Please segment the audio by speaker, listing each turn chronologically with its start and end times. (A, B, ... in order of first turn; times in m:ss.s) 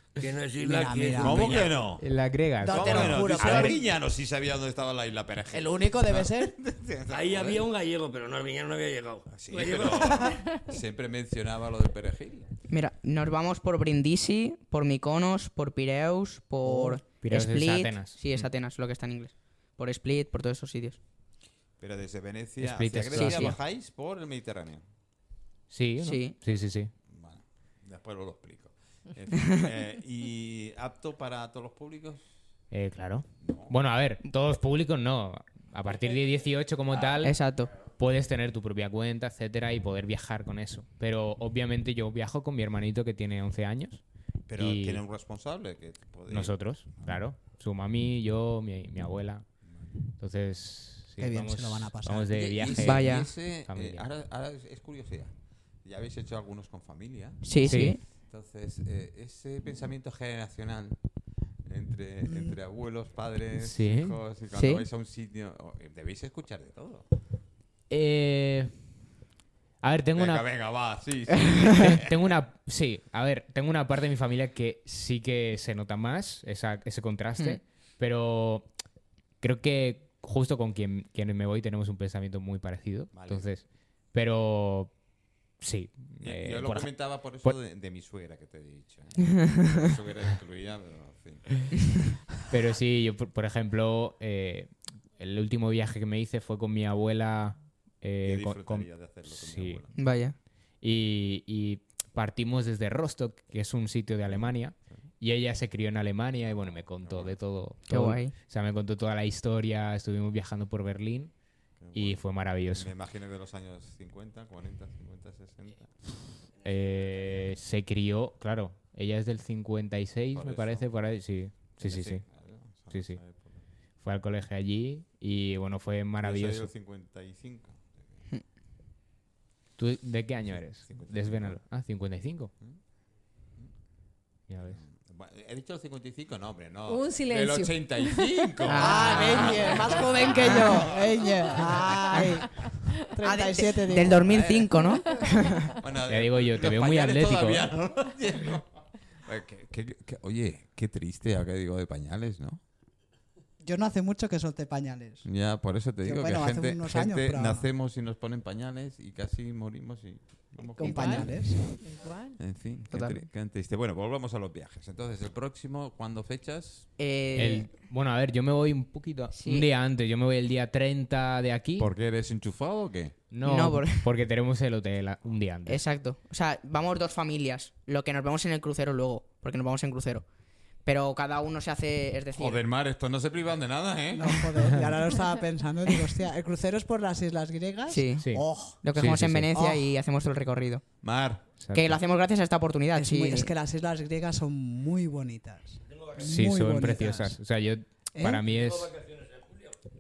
0:00.2-0:01.8 A
0:00.6-0:01.8 B
0:01.2-0:02.1 C
0:02.0-0:03.7 D
0:02.6-0:03.9 B
0:02.6-0:07.7 C
0:05.5-0:06.5 B
0:07.1-0:10.4 A
0:09.3-0:12.5 C
0:12.7-0:21.0 E
0:16.6-0:17.0 B
0:17.2-0:18.2 D
0:21.8-0:24.8 C
0:22.6-0:23.6 D
0:23.1-0:23.6 E
0:25.7-0:26.9 D
0:26.0-0:26.4 E
0:27.1-0:32.2 C
0:32.7-0:44.0 D
0:33.4-0:33.7 C
0:37.2-0:37.7 E
0:44.5-0:46.5 C
0:44.6-0:45.0 D
0:46.3-0:49.4 D
0:50.2-0:53.1 D
0:51.2-0:52.3 B
0:52.3-0:55.3 C
0:52.7-0:53.3 E
0:53.7-0:54.1 D
0:55.8-1:01.0 C
0:57.4-0:58.0 E
0:57.6-0:58.0 D
1:01.7-1:07.1 C
1:02.3-1:02.6 B
1:03.6-1:04.2 D
1:04.5-1:04.8 E
1:07.9-1:08.8 D
1:09.8-1:10.4 D
1:10.2-1:12.3 C
1:11.7-1:18.7 D
1:19.4-1:24.9 D
1:23.1-1:23.5 C
1:25.6-1:26.9 D
1:26.2-1:31.7 C
1:32.5-1:39.8 D
1:38.2-1:39.9 C
1:40.0-1:40.4 E
1:40.8-1:51.3 D
1:44.3-1:44.8 C
1:47.0-1:47.4 C
1:47.9-1:48.3 E
1:51.8-1:52.2 C
1:51.9-1:52.9 D
1:52.7-1:56.1 C
1:56.6-1:57.5 A
1:56.6-2:02.2 D
2:00.3-2:00.8 C
2:01.8-2:03.6 C
2:02.9-2:03.2 D
2:04.0-2:06.7 D
2:06.2-2:08.2 C
2:09.8-2:12.5 D
2:10.8-2:11.6 C
2:14.5-2:14.8 D
2:14.7-2:22.0 C
2:16.9-2:18.7 F
2:18.7-2:19.6 E
2:18.8-2:24.3 B
2:19.7-2:20.1 F
2:23.2-2:25.8 E
2:24.1-2:25.3 C
2:25.8-2:28.7 C
2:26.1-2:27.7 D
2:29.2-2:32.6 C
2:33.6-2:35.3 B
2:35.2-2:41.7 C
2:36.0-2:37.7 B
2:40.8-2:42.4 F
2:40.8-2:41.6 B
2:42.4-2:46.9 C
2:42.9-2:43.2 E
2:47.0-2:47.7 E
2:47.4-2:51.9 D
2:49.3-2:49.7 E
2:51.8-2:53.2 C
2:53.3-2:55.8 D
2:53.4-2:54.1 E
2:55.7-3:00.2 E
3:00.8-3:02.6 E
3:02.3-3:04.5 C
3:04.1-3:08.8 B
3:07.9-3:08.3 E
3:08.8-3:10.8 E
3:09.0-3:09.5 D
3:09.5-3:09.9 B
3:11.0-3:11.4 C
3:11.6-3:12.0 D
3:11.7-3:13.5 E
3:12.9-3:17.4 B
3:15.9-3:16.3 A
3:16.2-3:18.9 D
3:18.2-3:18.4 B
3:18.5-3:19.8 A